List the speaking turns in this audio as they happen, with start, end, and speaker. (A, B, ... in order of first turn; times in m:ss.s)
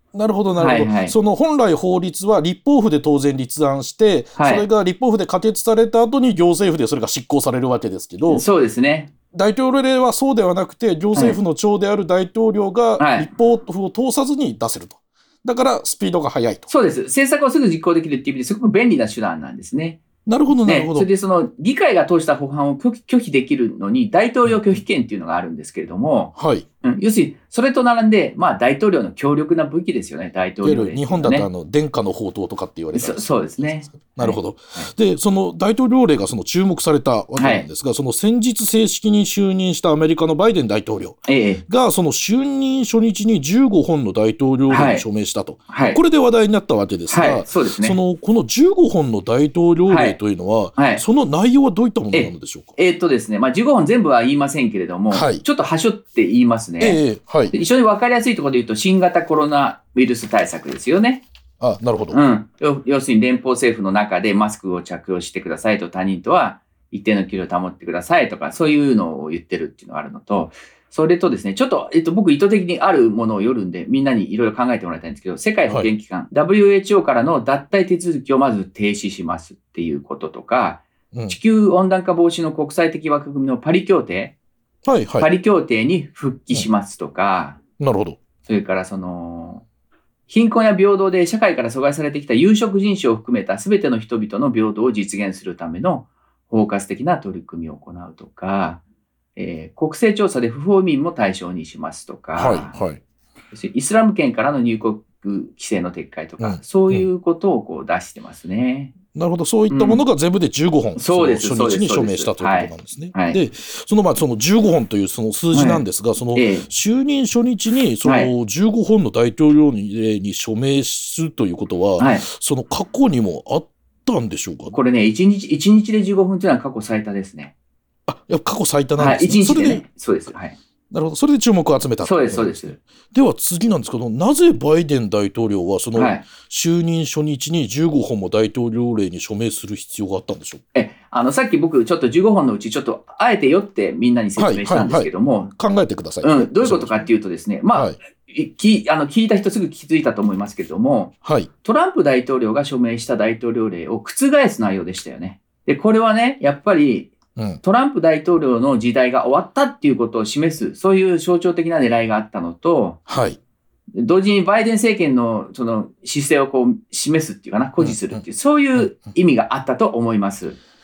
0:00.2-0:08.4 A
0:00.6-0:01.1 B
0:04.4-0:04.6 B
0:08.3-0:09.1 B
0:09.3-0:16.7 A
0:13.0-0:13.3 B
0:16.7-0:20.0 B
0:20.3-0:21.1 A
0:20.6-0:31.5 B
0:24.5-0:24.8 A
0:26.4-0:26.7 A
0:30.6-0:52.7 A
0:33.0-0:34.9 B
0:37.4-0:37.7 B
0:41.3-0:41.6 B
0:44.7-0:45.0 B
0:45.7-0:46.0 B
0:47.1-0:48.0 B
0:49.9-0:50.2 B
0:50.8-0:51.0 B
0:52.1-0:57.0 B
0:55.1-0:55.4 A
0:56.8-0:57.6 A
0:57.5-1:01.2 B
1:01.6-1:02.2 A
1:02.1-1:24.4 B
1:24.9-1:25.3 A
1:25.2-1:27.6 B
1:27.8-1:28.2 A
1:28.5-1:29.6 B
1:30.3-1:38.8 B
1:39.4-1:42.7 B
1:42.4-1:43.0 A
1:43.5-1:49.0 B
1:46.4-1:47.1 A
1:49.1-2:04.8 A
1:49.7-1:50.0 B
1:51.0-1:53.4 B
1:55.5-1:55.8 B
1:56.4-1:56.7 B
1:58.0-1:58.3 B
2:02.0-2:02.2 B
2:04.7-2:07.5 B
2:08.1-2:09.8 A
2:09.0-2:10.6 B
2:10.9-2:20.6 A
2:12.0-2:12.8 B
2:16.0-2:16.2 B
2:20.7-2:25.5 B
2:24.4-2:27.1 A
2:26.2-2:43.0 B
2:31.2-2:31.5 A
2:37.4-2:37.6 A
2:43.1-2:43.4 A
2:44.0-2:50.6 B
2:47.8-2:48.2 A